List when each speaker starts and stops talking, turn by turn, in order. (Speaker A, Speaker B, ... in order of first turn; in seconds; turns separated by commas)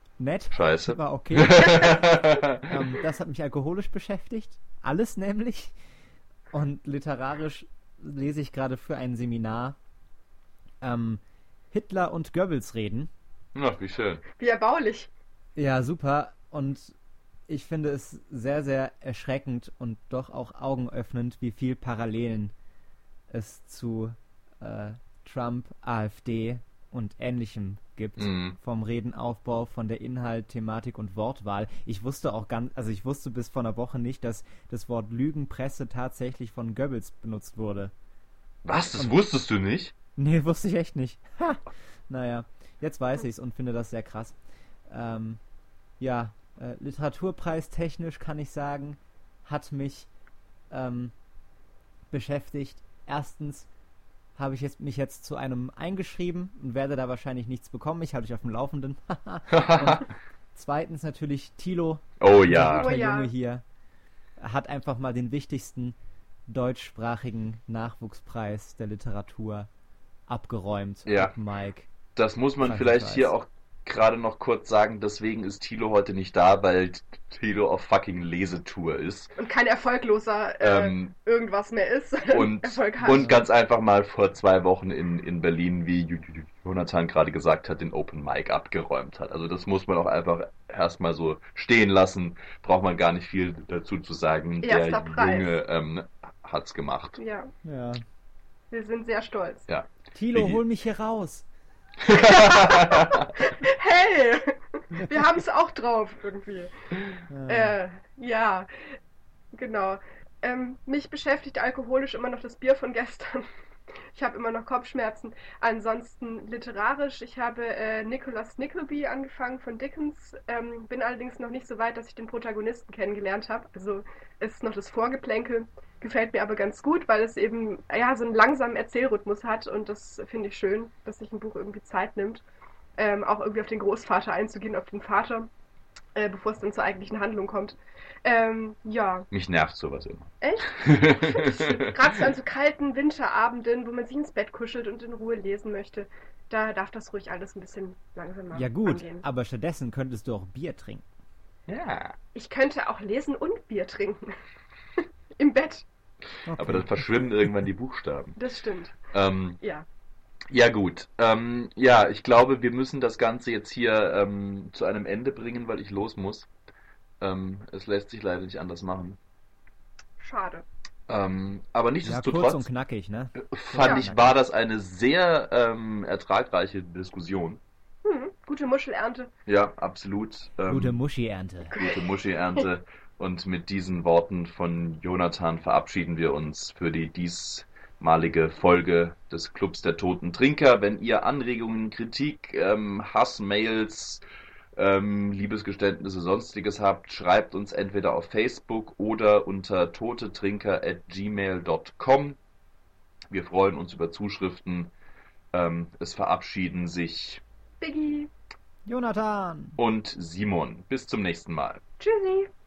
Speaker A: 0.2-5.7, Speaker B: 0.5-2.7, Speaker A: 6.5-9.8, Speaker A: 10.8-11.2, Speaker A: 11.7-13.1, Speaker B: 13.6-14.2, Speaker C: 14.4-15.1, Speaker A: 15.6-16.9, Speaker A: 17.5-22.5, Speaker A: 23.3-37.9, Speaker B: 28.2-28.6, Speaker B: 38.6-39.9, Speaker A: 40.1-44.4, Speaker A: 44.9-45.4, Speaker A: 46.0-50.1, Speaker A: 50.7-51.1, Speaker A: 52.1-53.7, Speaker A: 54.4-63.6, Speaker B: 59.5-60.1, Speaker B: 62.2-62.9, Speaker C: 62.7-63.3, Speaker A: 64.4-69.7, Speaker A: 70.3-71.9, Speaker B: 71.0-71.3, Speaker B: 72.1-79.3, Speaker A: 72.6-73.3, Speaker C: 79.4-83.2, Speaker B: 80.6-81.1, Speaker B: 82.3-97.2, Speaker A: 83.1-83.4, Speaker C: 94.6-95.6, Speaker C: 97.2-97.5, Speaker A: 97.6-98.0, Speaker C: 98.7-99.6, Speaker B: 99.7-100.6, Speaker A: 100.1-101.5, Speaker B: 102.0-103.2, Speaker C: 102.1-106.7, Speaker A: 107.3-107.8, Speaker C: 107.5-108.7, Speaker C: 109.5-113.5, Speaker C: 114.1-132.4, Speaker C: 133.0-135.5, Speaker C: 136.2-139.2, Speaker B: 139.3-141.9, Speaker C: 140.4-149.2, Speaker A: 148.5-151.0, Speaker B: 151.7-152.1, Speaker C: 152.3-154.3, Speaker C: 155.0-155.8, Speaker A: 156.5-157.5, Speaker B: 156.6-158.4, Speaker C: 158.4-158.9, Speaker B: 159.1-159.6, Speaker B: 160.5-166.5, Speaker B: 167.2-169.2, Speaker C: 170.2-170.6, Speaker B: 171.1-172.7, Speaker A: 172.0-174.4, Speaker B: 173.4-177.6, Speaker C: 178.0-179.3, Speaker B: 179.5-180.9, Speaker A: 180.7-181.7, Speaker C: 181.7-182.1, Speaker B: 181.7-194.2, Speaker B: 194.8-202.4, Speaker B: 203.3-204.9, Speaker B: 205.5-207.4, Speaker C: 207.8-208.3, Speaker A: 208.8-209.8, Speaker B: 209.8-211.8, Speaker C: 212.0-212.5